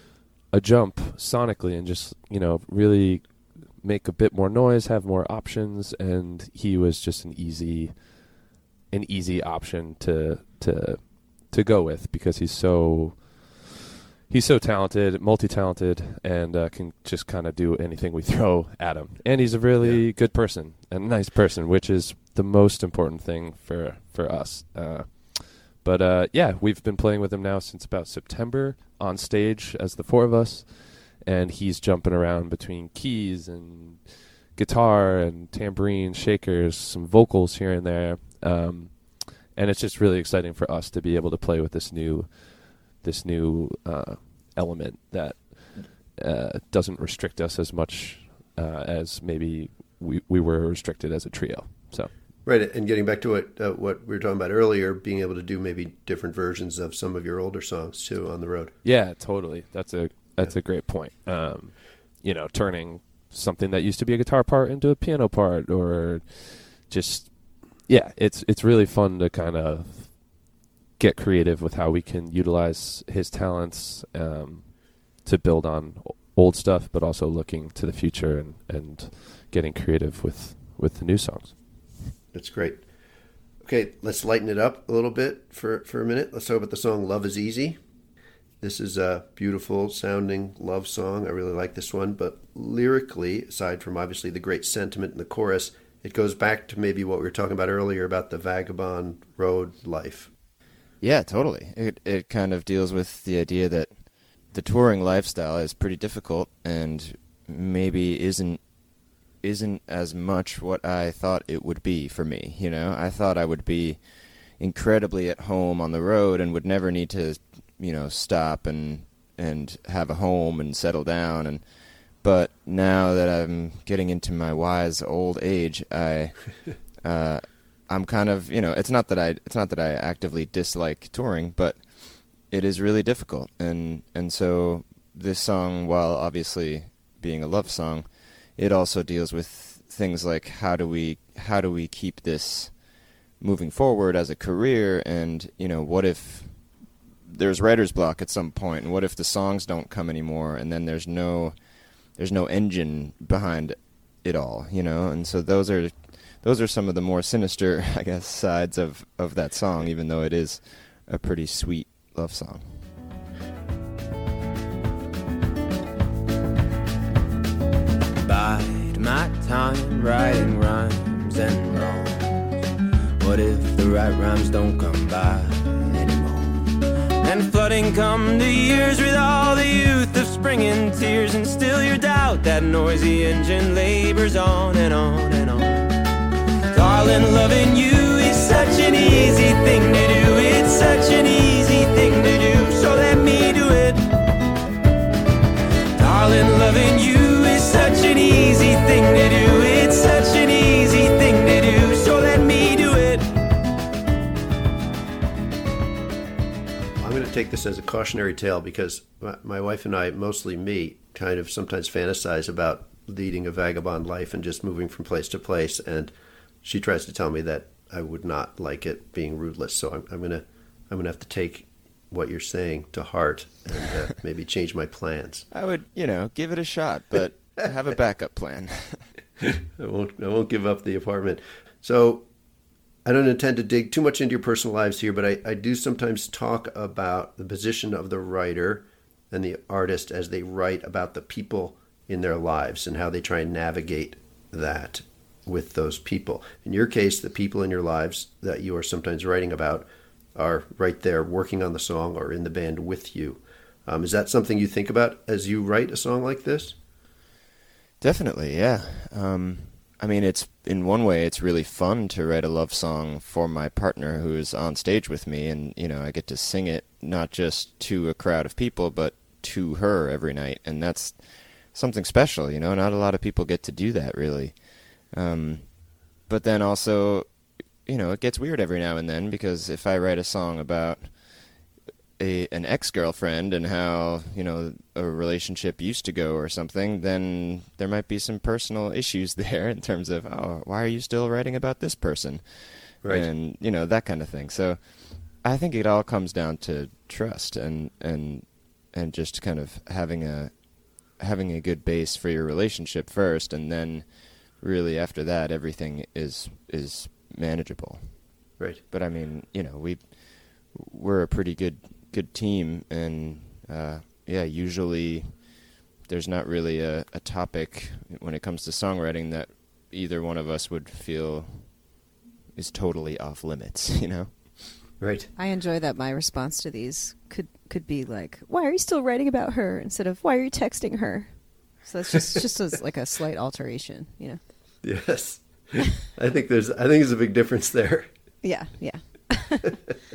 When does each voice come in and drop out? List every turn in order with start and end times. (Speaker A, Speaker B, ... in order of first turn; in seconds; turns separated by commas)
Speaker A: 0.5-13.7, Speaker A: 14.3-52.1, Speaker B: 52.4-58.7, Speaker A: 58.8-70.4, Speaker A: 71.0-81.6, Speaker B: 82.3-82.8, Speaker B: 83.6-87.8, Speaker B: 88.6-100.3, Speaker C: 101.0-108.6, Speaker C: 109.4-114.0, Speaker C: 114.6-142.8, Speaker C: 143.4-146.7, Speaker C: 147.2-151.6, Speaker C: 152.1-162.9, Speaker D: 168.2-172.4, Speaker D: 173.2-185.9, Speaker D: 186.7-194.1, Speaker D: 196.0-203.3, Speaker B: 207.0-216.1, Speaker B: 216.6-225.5, Speaker C: 225.5-229.1, Speaker B: 229.8-232.2, Speaker B: 233.0-256.8, Speaker C: 258.0-277.3, Speaker C: 277.9-281.2, Speaker C: 282.2-300.6, Speaker C: 301.1-308.3, Speaker C: 308.9-315.5, Speaker C: 316.1-321.9, Speaker C: 322.5-324.9, Speaker B: 325.0-325.3, Speaker E: 325.4-334.4, Speaker B: 334.8-338.1, Speaker E: 338.4-339.8